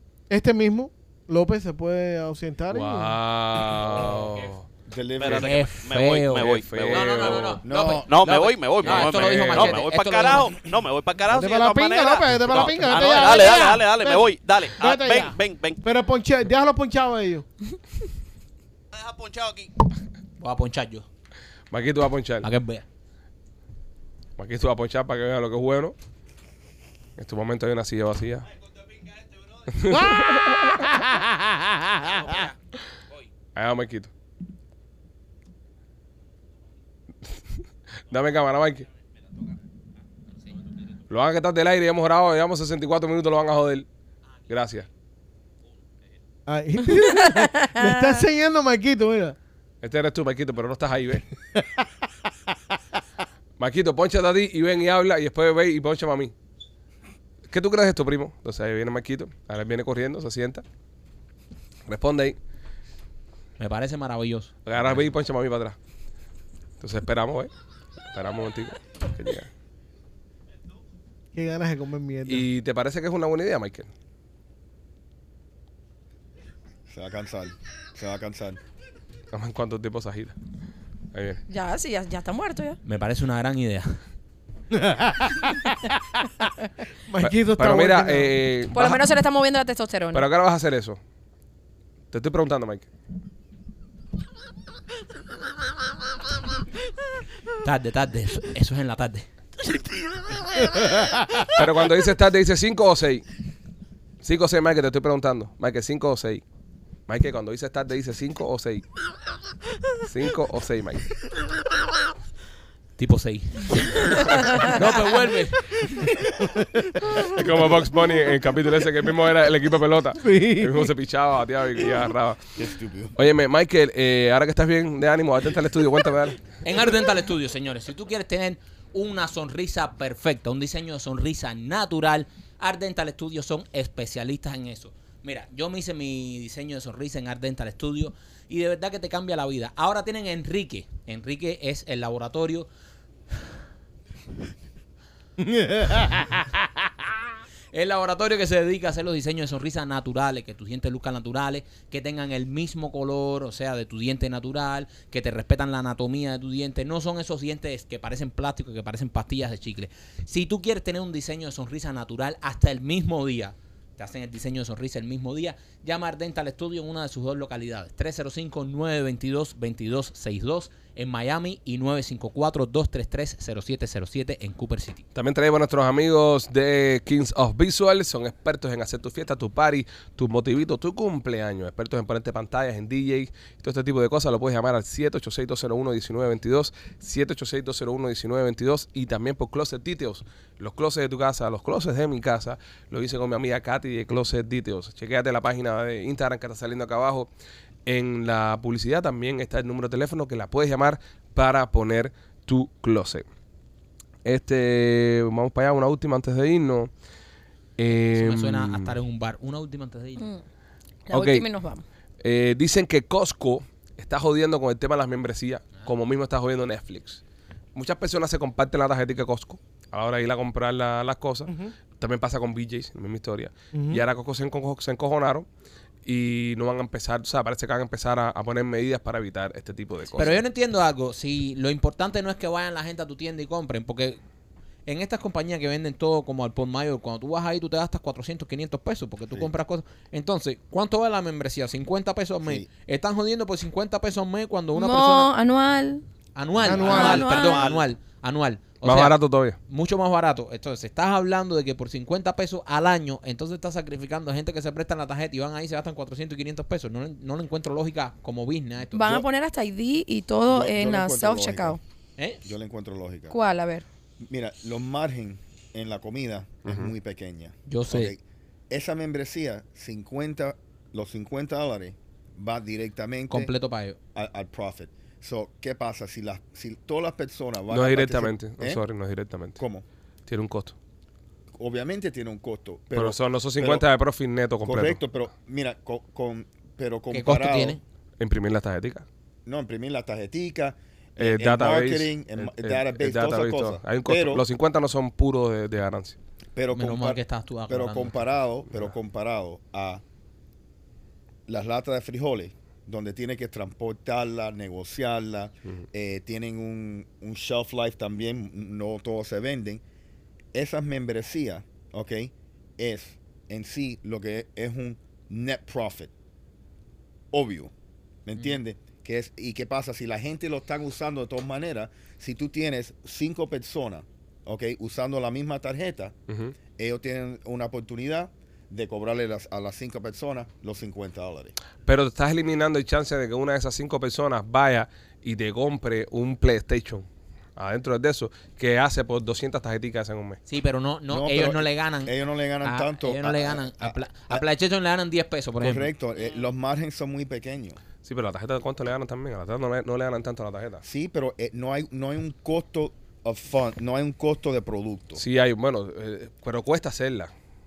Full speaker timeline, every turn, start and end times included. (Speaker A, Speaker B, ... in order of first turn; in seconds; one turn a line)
Speaker A: 0.3-3.2
Speaker B: 2.7-4.7
Speaker C: 4.9-5.7
Speaker D: 5.2-15.8
Speaker E: 5.3-10.6
Speaker B: 6.4-7.6
Speaker C: 7.6-8.3
Speaker B: 8.8-9.8
Speaker A: 11.3-17.5
Speaker E: 12.8-13.8
Speaker D: 18.9-19.7
Speaker E: 20.4-21.1
Speaker B: 21.7-22.5
Speaker E: 22.4-22.9
Speaker B: 24.4-25.9
Speaker B: 27.2-28.5
Speaker B: 29.7-31.0
Speaker A: 29.9-32.2
Speaker E: 32.1-32.5
Speaker B: 33.5-34.1
Speaker B: 38.1-38.9
Speaker B: 41.1-43.9
Speaker B: 44.5-44.9
Speaker A: 46.5-49.4
Speaker F: 47.0-47.8
Speaker B: 49.8-51.2
Speaker B: 53.6-56.3
Speaker B: 57.5-60.6
Speaker B: 61.9-62.4
Speaker E: 63.6-64.9
Speaker B: 64.7-65.8
Speaker B: 66.8-67.5
Speaker B: 68.1-69.5
Speaker A: 71.3-72.5
Speaker B: 72.3-73.9
Speaker C: 76.9-78.6
Speaker B: 79.3-80.4
Speaker B: 81.1-81.4
Speaker F: 81.5-82.8
Speaker E: 82.8-84.0
Speaker A: 84.7-86.3
Speaker A: 87.1-88.4
Speaker B: 87.2-89.0
Speaker F: 88.7-90.3
Speaker B: 90.1-91.0
Speaker B: 92.1-92.9
Speaker E: 97.6-99.3
Speaker B: 101.5-103.2
Speaker B: 104.2-106.4
Speaker B: 107.1-108.8
Speaker B: 110.0-111.1
Speaker E: 113.0-115.9
Speaker B: 114.2-114.6
Speaker A: 116.2-117.4
Speaker B: 117.2-122.5
Speaker A: 120.2-120.9
Speaker C: 122.6-123.2
Speaker B: 123.2-126.4
Speaker E: 126.6-142.7
Speaker A: 145.5-146.0
Speaker E: 145.9-146.5
Speaker E: 147.7-175.1
Speaker B: 175.2-197.3
Speaker B: 197.9-203.2
Speaker B: 204.2-206.9
Speaker B: 207.8-209.0
Speaker E: 208.2-210.3
Speaker F: 211.1-211.8
Speaker B: 211.1-211.5
Speaker B: 212.2-217.2
Speaker B: 217.8-225.5
Speaker A: 223.7-224.0
Speaker B: 226.1-230.4
Speaker E: 230.1-234.2
Speaker E: 234.9-245.3
Speaker C: 242.4-242.7
Speaker F: 244.7-246.0
Speaker E: 246.3-249.2
Speaker A: 246.6-247.3
Speaker D: 246.7-247.8
Speaker F: 246.9-247.7
Speaker B: 248.8-249.6
Speaker E: 249.7-259.1
Speaker F: 258.9-261.8
Speaker C: 260.5-261.8
Speaker E: 262.2-262.4
Speaker C: 262.4-263.4
Speaker F: 263.3-263.9
Speaker C: 264.2-273.5
Speaker B: 266.7-266.9
Speaker E: 267.7-268.1
Speaker E: 273.3-274.0
Speaker C: 274.1-278.8
Speaker B: 277.7-279.6
Speaker C: 279.6-279.9
Speaker B: 280.3-280.8
Speaker C: 281.6-283.8
Speaker B: 282.9-285.0
Speaker C: 284.6-287.8
Speaker E: 287.1-287.8
Speaker B: 288.2-289.1
Speaker C: 289.5-294.4
Speaker B: 291.2-296.2
Speaker C: 296.6-300.0
Speaker E: 296.7-298.3
Speaker C: 301.5-309.8
Speaker C: 310.5-316.1
Speaker C: 317.3-317.7
Speaker C: 318.3-326.2
Speaker B: 326.3-326.6
Speaker C: 326.8-331.6
Speaker B: 331.9-340.4
Speaker E: 340.5-345.9
Speaker C: 341.1-344.4
Speaker C: 345.6-347.8
Speaker D: 346.2-346.5
Speaker B: 348.0-350.8
Speaker C: 350.8-355.2
Speaker B: 355.2-357.3